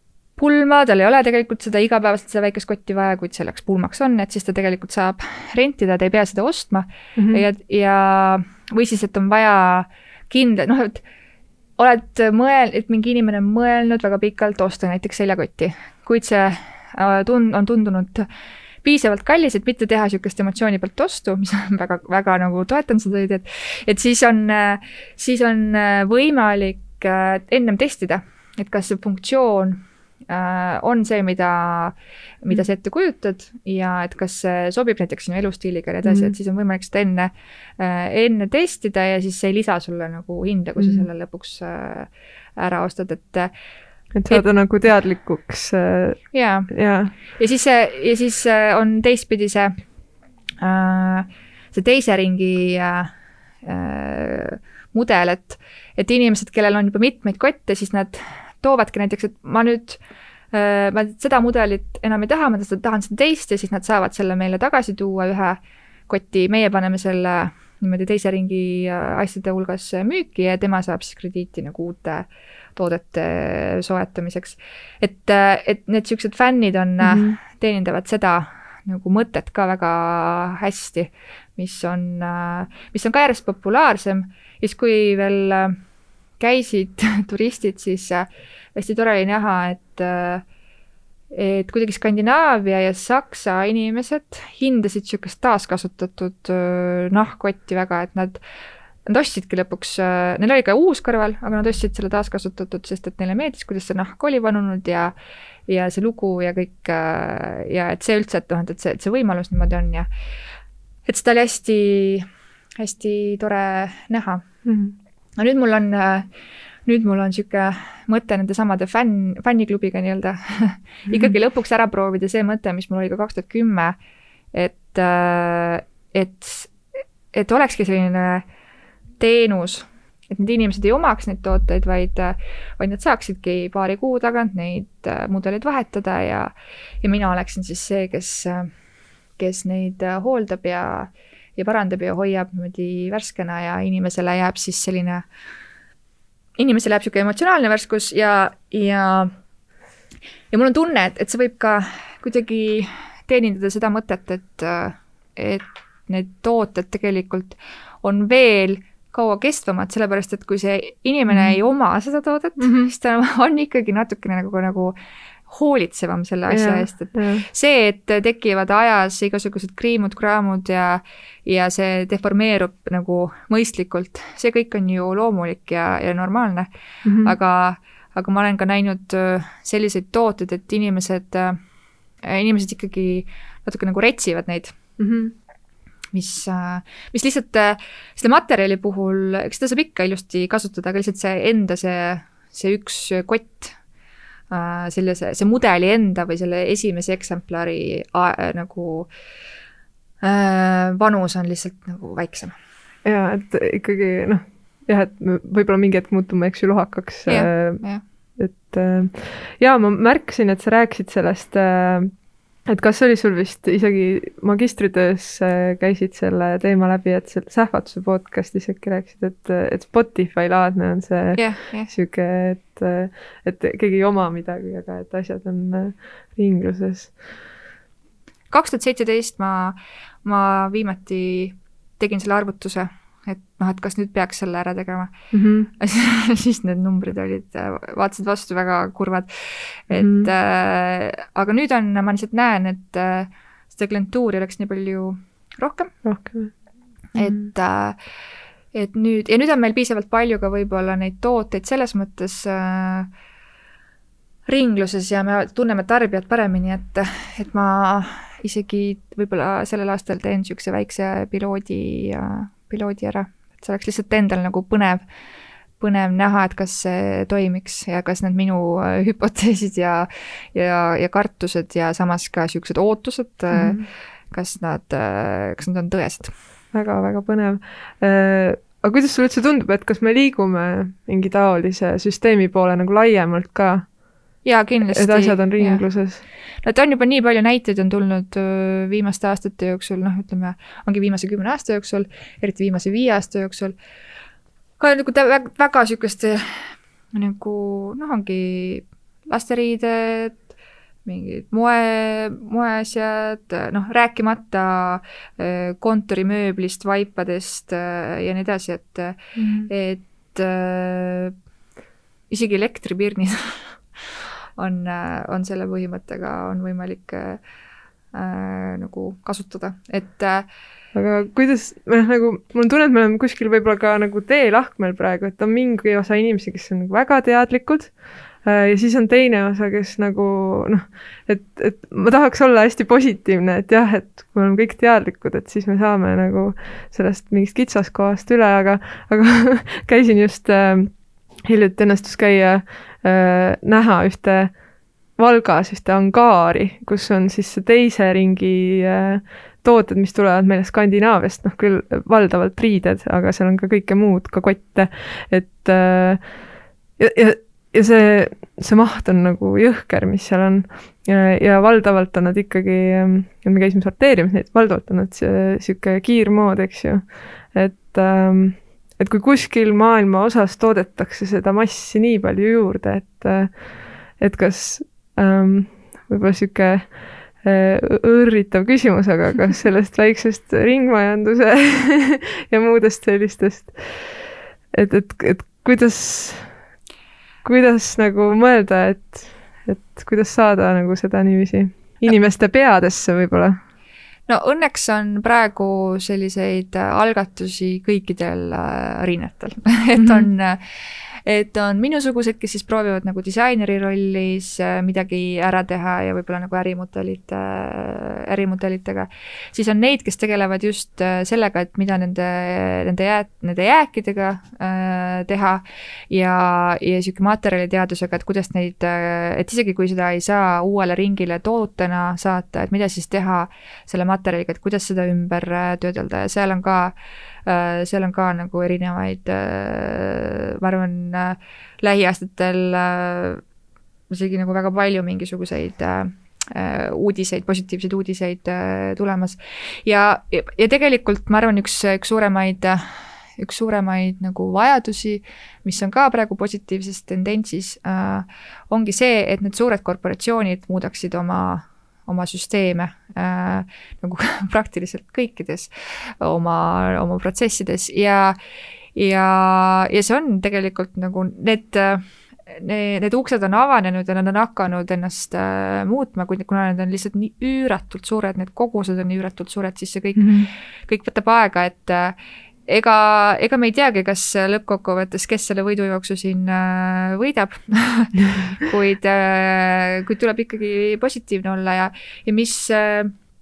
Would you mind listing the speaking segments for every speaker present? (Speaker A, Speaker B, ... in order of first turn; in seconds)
Speaker A: 0.4-11.0, 11.8-18.3, 18.8-43.5, 46.3-46.7, 47.3-49.8, 50.6-53.1, 53.6-60.0, 60.5-85.8, 86.4-90.4, 91.3-98.4, 99.1-105.1, 105.7-110.1, 111.1-112.3, 112.8-114.4, 115.4-116.3, 116.9-124.0, 124.5-126.7, 127.3-128.4, 129.2-136.5, 137.0-138.7, 139.4-145.2, 146.6-149.3, 150.5-165.0, 165.5-176.7, 177.2-181.6, 182.2-184.8, 186.1-193.8, 194.5-199.1, 200.2-202.6, 207.3-208.0, 221.4-221.9, 228.5-235.1, 235.8-245.9, 247.2-248.0, 248.7-253.1, 254.5-265.0, 265.8-276.3, 284.4-285.9, 286.6-293.8, 294.8-300.4, 301.1-311.3, 312.3-313.8, 314.6-317.4, 318.1-320.5, 394.3-400.6, 401.3-426.9, 427.5-433.4, 434.1-455.7, 456.2-458.4, 458.9-483.1
Speaker B: 7.2-7.4, 36.0-36.3, 40.8-41.1, 44.2-47.1, 77.0-77.4, 114.7-115.0, 121.1-121.3, 161.3-161.6, 162.6-162.9, 166.5-167.4, 177.1-177.3, 185.0-185.3, 203.0-207.8, 208.4-212.1, 212.7-227.3, 235.3-235.7, 239.9-240.3, 246.0-246.5, 273.5-273.9, 276.7-283.9, 284.9-286.2, 309.4-309.7, 320.9-344.6, 345.2-356.5, 357.0-386.6, 387.4-393.6, 400.0-400.3, 470.2-470.5